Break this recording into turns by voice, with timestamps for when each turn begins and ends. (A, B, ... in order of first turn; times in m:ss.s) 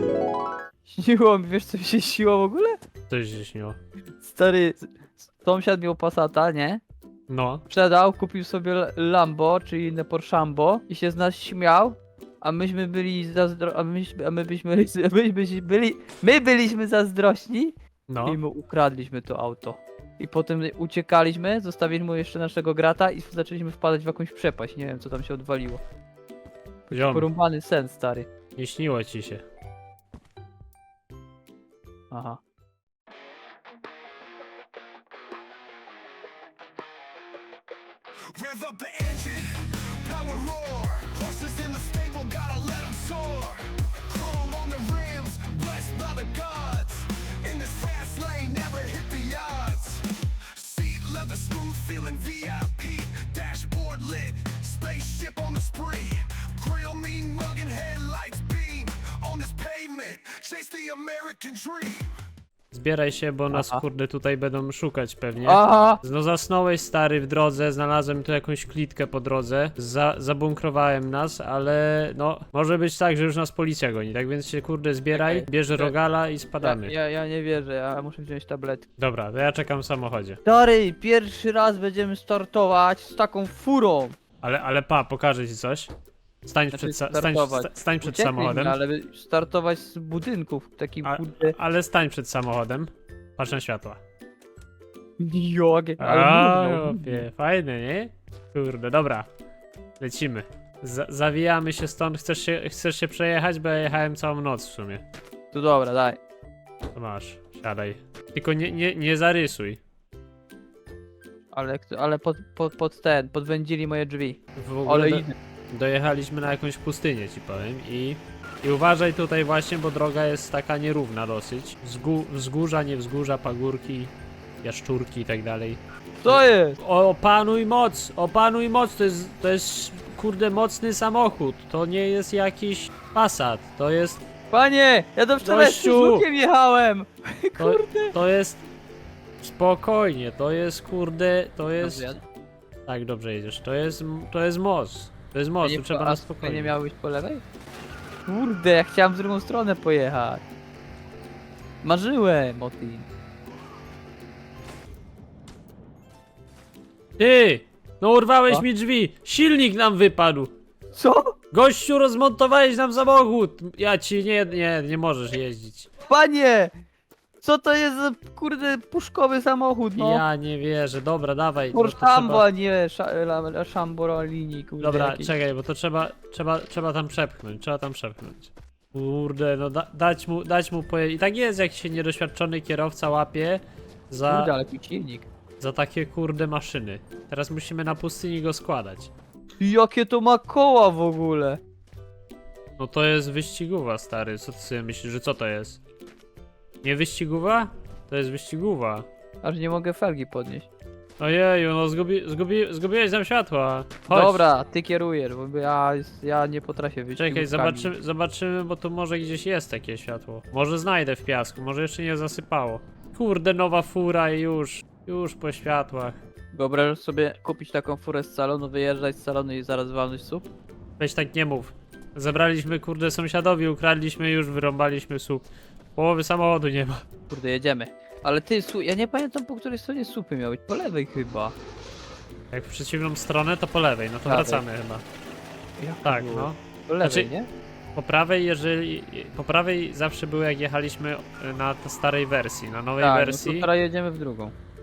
0:00.9-0:02.8 A
0:03.1-0:03.8 B
0:04.2-0:06.8 A
0:07.3-0:07.6 B
0:07.7-0:25.8 A
0:18.1-0:18.4 B
0:26.9-0:28.3 A
0:26.9-0:27.3 B
0:28.6-0:29.4 B
0:32.1-0:32.4 A
0:38.3-1:02.1 C
1:02.7-1:16.9 B
1:03.5-1:03.8 A
1:05.4-1:06.0 A
1:15.1-1:15.9 A
1:16.6-1:18.8 A
1:19.0-1:20.4 B
1:20.4-1:24.2 A
1:24.4-1:25.9 B
1:26.4-1:28.8 B
1:26.7-1:31.5 A
1:31.0-1:34.0 B
1:35.2-1:37.3 A
1:36.0-1:39.3 B
1:40.0-1:45.0 B
1:45.5-1:46.2 A
1:46.9-1:49.8 B
1:51.5-1:55.3 A
1:54.6-2:14.2 B
2:06.2-2:06.8 A
2:14.5-2:18.1 A
2:15.4-2:16.2 B
2:17.6-2:18.6 B
2:19.4-2:22.1 B
2:21.8-2:22.2 A
2:22.8-2:26.7 B
2:25.6-2:27.4 A
2:28.2-2:30.4 A
2:31.8-2:33.1 A
2:37.2-2:40.5 B
2:40.9-2:41.3 A
2:41.5-2:45.9 B
2:46.1-2:46.7 A
2:47.4-2:50.2 A
2:50.0-2:52.4 B
2:51.7-2:55.3 A
2:54.8-3:04.5 B
3:04.3-3:05.3 A
3:05.6-3:09.1 B
3:09.6-3:11.6 A
3:12.8-3:15.8 B
3:16.8-3:19.0 B
3:19.4-3:20.7 A
3:21.2-3:24.4 B
3:24.1-3:27.9 A
3:27.1-3:36.2 B
3:36.5-3:40.4 A
3:41.0-3:47.0 B
3:47.3-3:51.5 A
3:52.5-3:55.0 B
3:54.2-3:54.6 A
3:55.8-3:57.5 A
3:56.0-3:57.3 B
3:57.9-4:03.7 B
4:03.0-4:04.5 A